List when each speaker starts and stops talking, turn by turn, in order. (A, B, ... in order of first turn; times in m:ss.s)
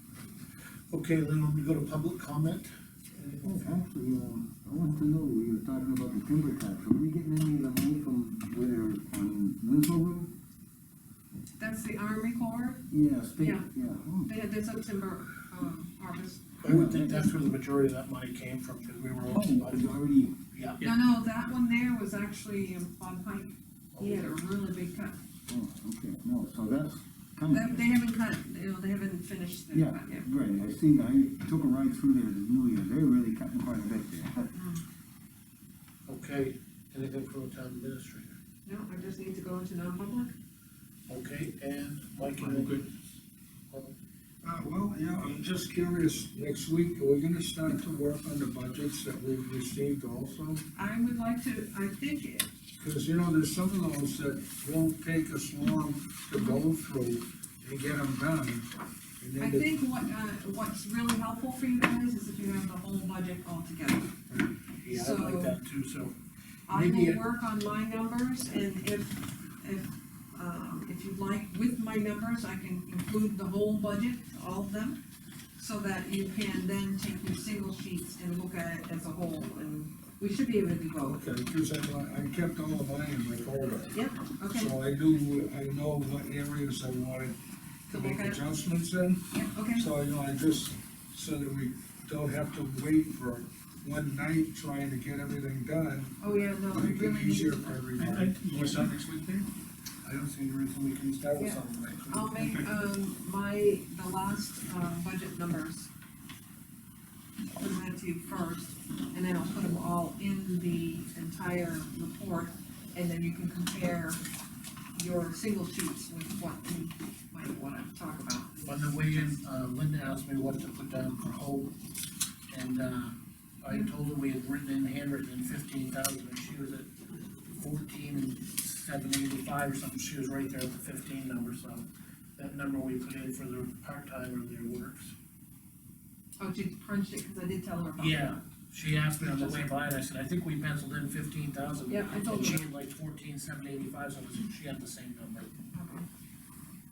0:00.9-0:02.7 A
0:03.2-0:03.5 B
0:03.4-0:10.3 C
0:11.6-0:12.8 D
0:12.9-0:14.3 C
0:13.4-0:13.7 D
0:14.2-0:17.1 D
0:16.6-0:20.0 A
0:16.6-0:17.3 C
0:19.3-0:20.4 C
0:20.5-0:20.8 A
0:20.8-0:25.2 D
0:24.0-0:24.4 A
0:25.5-0:28.0 C
0:27.5-0:30.3 D
0:29.7-0:34.5 C
0:34.5-0:34.8 D
0:36.1-0:38.4 A
0:38.6-0:40.3 D
0:41.1-0:42.9 A
0:42.4-0:42.9 B
0:44.4-0:50.6 E
0:50.8-0:52.5 D
0:52.8-0:58.7 E
0:59.2-0:59.7 E
0:59.4-1:04.2 D
1:04.3-1:06.2 A
1:04.9-1:05.6 D
1:06.7-1:15.0 D
1:06.7-1:07.2 A
1:15.6-1:21.2 D
1:21.1-1:24.0 E
1:23.9-1:24.7 D
1:24.6-1:27.3 E
1:27.9-1:28.4 D
1:27.9-1:29.2 E
1:29.3-1:29.9 D
1:29.8-1:36.1 E
1:36.2-1:37.8 D
1:36.7-1:38.4 E
1:38.0-1:39.5 B
1:40.0-1:42.4 A
1:41.4-1:45.9 D
1:42.4-1:42.7 B
1:47.6-1:54.2 D
1:55.0-1:58.8 D
1:58.6-2:01.7 A
2:02.5-2:06.9 A
2:07.5-2:11.9 A
2:12.4-2:15.1 A
2:16.4-2:18.4 D
2:18.0-2:25.5 A
2:19.3-2:19.7 D
2:21.9-2:22.6 D
2:25.7-2:26.1 D